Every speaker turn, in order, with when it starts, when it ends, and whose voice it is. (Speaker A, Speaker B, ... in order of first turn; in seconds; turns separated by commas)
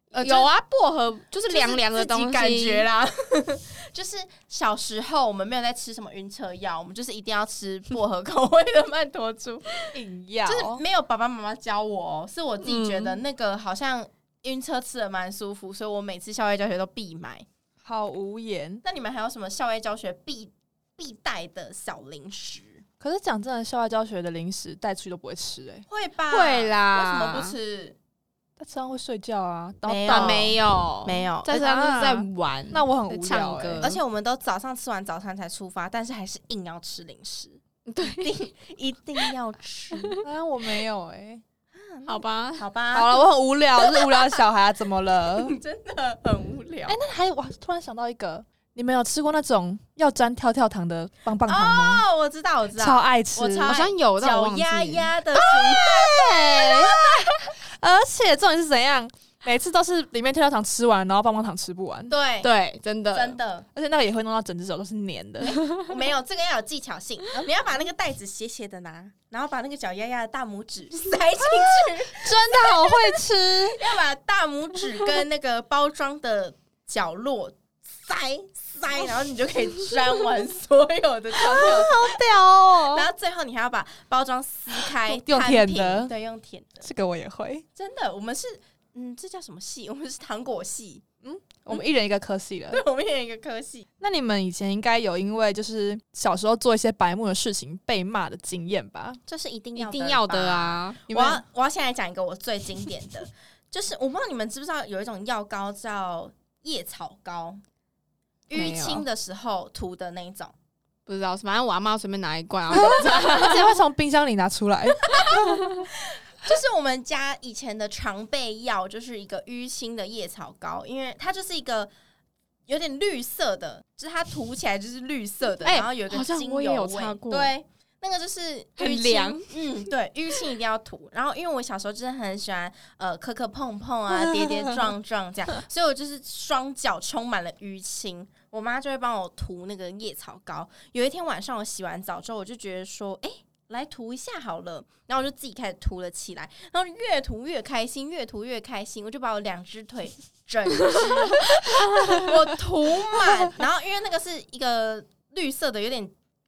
Speaker A: 0.1-2.9, Speaker B: 0.2-0.5, Speaker B: 1.5-9.7, Speaker C: 9.9-10.8, Speaker B: 10.4-17.5, Speaker A: 12.6-13.2, Speaker C: 17.8-18.8, Speaker B: 18.8-22.8, Speaker C: 23.0-25.9, Speaker B: 25.9-28.0, Speaker A: 26.3-27.6, Speaker C: 28.6-30.5, Speaker B: 29.9-31.9, Speaker A: 30.1-34.0, Speaker C: 31.5-34.0, Speaker B: 33.8-40.2, Speaker A: 37.9-38.4, Speaker A: 39.9-40.2, Speaker C: 40.2-41.4, Speaker B: 41.7-43.2, Speaker A: 42.0-42.6, Speaker C: 42.9-45.5, Speaker B: 43.8-44.3, Speaker B: 45.3-47.0, Speaker C: 46.9-52.0, Speaker B: 51.5-57.5, Speaker C: 52.8-53.8, Speaker A: 53.6-55.1, Speaker C: 55.4-62.1, Speaker B: 62.1-62.5, Speaker A: 62.4-63.4, Speaker B: 63.1-63.6, Speaker C: 63.8-65.6, Speaker B: 65.5-73.1, Speaker C: 72.1-73.8, Speaker B: 73.7-82.2, Speaker C: 81.3-83.1, Speaker B: 82.9-86.9, Speaker C: 84.8-86.1, Speaker C: 86.8-87.6, Speaker B: 87.8-91.0, Speaker C: 91.2-92.8, Speaker B: 92.7-93.9, Speaker C: 94.0-99.2, Speaker B: 99.3-107.6, Speaker A: 99.8-101.0, Speaker C: 101.1-101.4, Speaker B: 108.5-110.5, Speaker A: 108.5-109.0, Speaker A: 111.0-113.8, Speaker C: 112.7-115.8, Speaker B: 115.1-121.9, Speaker B: 122.7-156.1, Speaker A: 125.6-127.5, Speaker A: 128.8-129.5, Speaker C: 134.3-134.8